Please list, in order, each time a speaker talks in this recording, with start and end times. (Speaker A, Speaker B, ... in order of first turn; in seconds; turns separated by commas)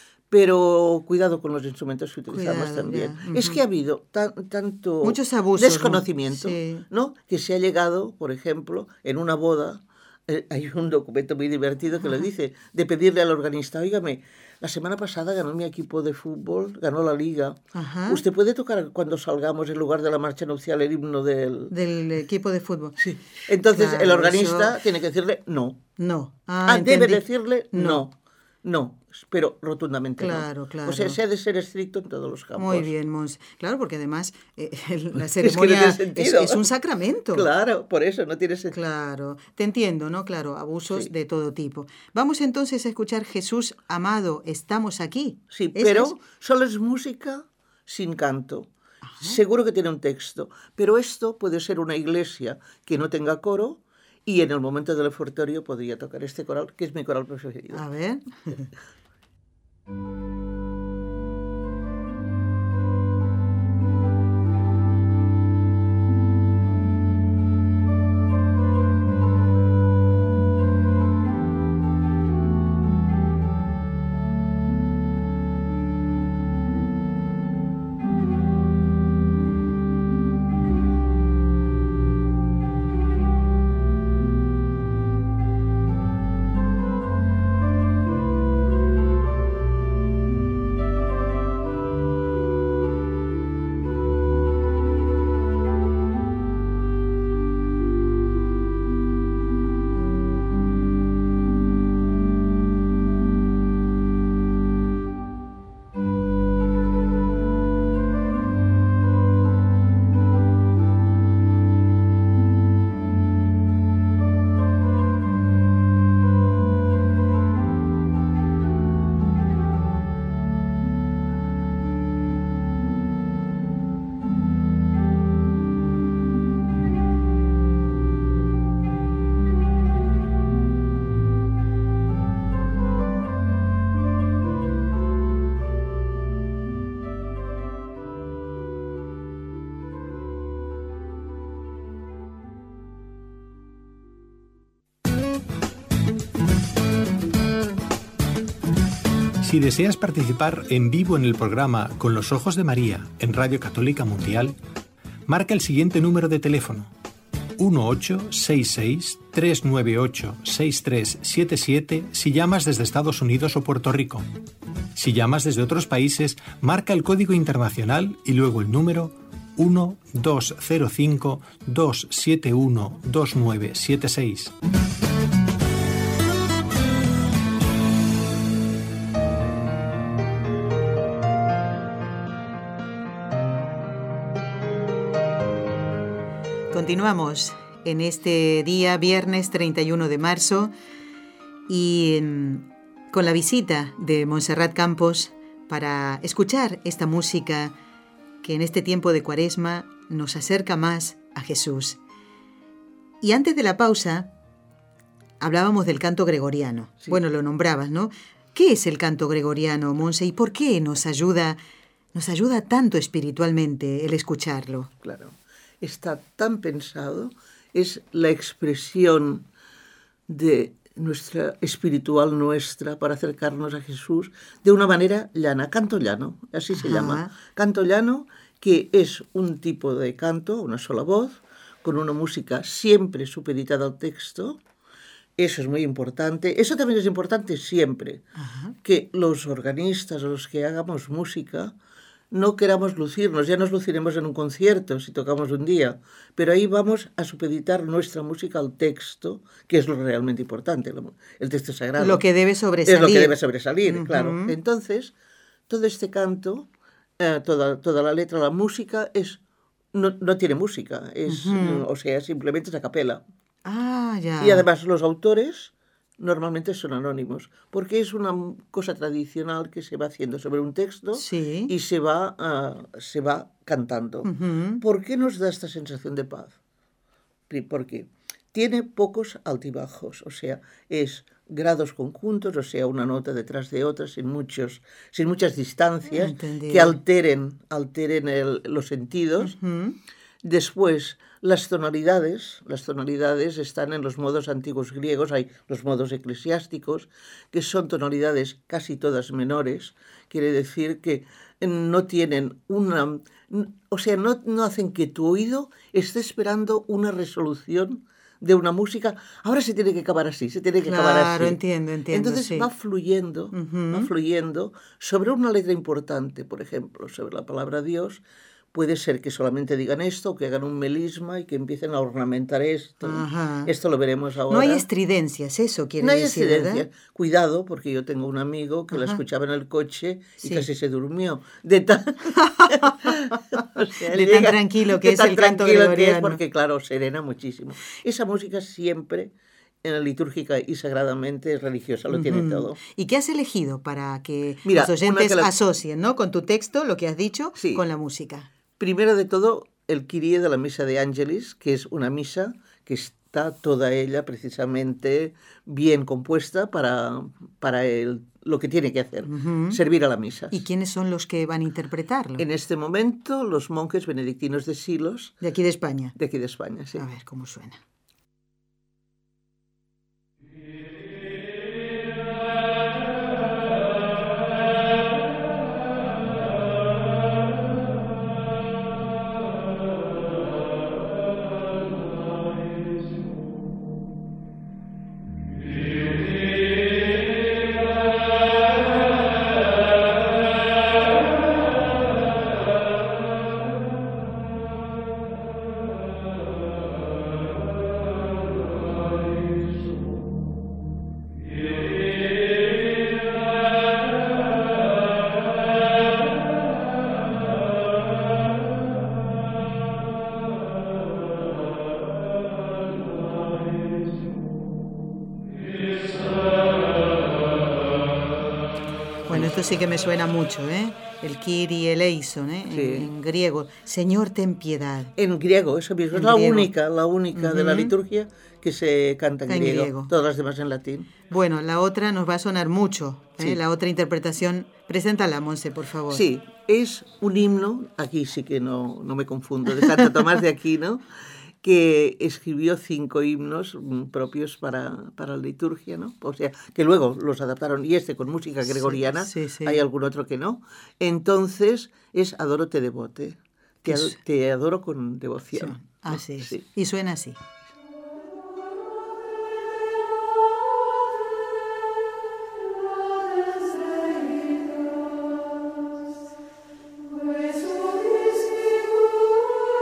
Speaker A: 0.3-21.7, Speaker B: 2.3-3.6, Speaker B: 5.0-6.8, Speaker B: 17.7-18.2, Speaker B: 21.7-23.0, Speaker A: 23.0-25.8, Speaker B: 23.5-24.7, Speaker B: 26.0-28.0, Speaker A: 26.7-32.9, Speaker B: 30.2-31.2, Speaker B: 32.5-37.5, Speaker A: 35.1-36.6, Speaker A: 37.3-38.8, Speaker B: 38.7-46.2, Speaker A: 45.5-48.7, Speaker B: 49.0-49.4, Speaker A: 49.2-57.8, Speaker B: 57.7-58.7, Speaker C: 149.4-154.6, Speaker C: 155.2-156.9, Speaker C: 157.6-164.3, Speaker C: 164.9-174.5, Speaker B: 186.7-190.7, Speaker B: 191.7-197.7, Speaker B: 198.4-202.0, Speaker B: 203.2-204.3, Speaker B: 205.4-211.6, Speaker B: 212.1-214.9, Speaker A: 215.0-219.4, Speaker A: 220.3-234.6, Speaker B: 226.7-227.3, Speaker A: 235.4-238.3, Speaker B: 238.3-238.8, Speaker A: 238.8-241.7, Speaker A: 242.3-252.2, Speaker B: 252.0-254.6, Speaker A: 252.8-255.1, Speaker A: 255.7-256.7, Speaker A: 257.2-259.4, Speaker A: 259.9-263.2, Speaker B: 261.3-261.9, Speaker B: 263.6-264.6, Speaker A: 264.4-276.5, Speaker B: 271.1-271.7, Speaker B: 274.2-274.8, Speaker A: 277.5-289.6, Speaker B: 286.1-287.0, Speaker B: 289.4-290.0, Speaker A: 290.4-311.6, Speaker B: 310.8-312.7, Speaker A: 312.1-318.2, Speaker B: 313.5-314.1, Speaker A: 318.7-324.8, Speaker B: 323.0-323.7, Speaker B: 324.5-326.9, Speaker A: 326.0-339.3, Speaker B: 328.9-329.2, Speaker B: 330.4-330.7, Speaker B: 332.3-333.4, Speaker B: 334.0-336.4, Speaker A: 339.8-342.8, Speaker B: 342.1-348.5, Speaker A: 344.6-345.5, Speaker A: 347.6-347.8, Speaker A: 348.8-360.6, Speaker B: 359.2-359.8, Speaker B: 360.5-362.4, Speaker A: 362.4-365.4, Speaker B: 365.4-366.1, Speaker A: 366.1-367.0, Speaker B: 366.9-367.8, Speaker B: 419.3-425.1, Speaker A: 422.7-423.1, Speaker A: 425.2-431.1, Speaker B: 426.1-426.7, Speaker B: 427.3-427.9, Speaker B: 429.5-430.1, Speaker B: 431.3-436.2, Speaker A: 436.1-441.1, Speaker A: 441.6-456.6, Speaker B: 448.6-449.8, Speaker B: 453.8-454.2, Speaker B: 455.5-457.4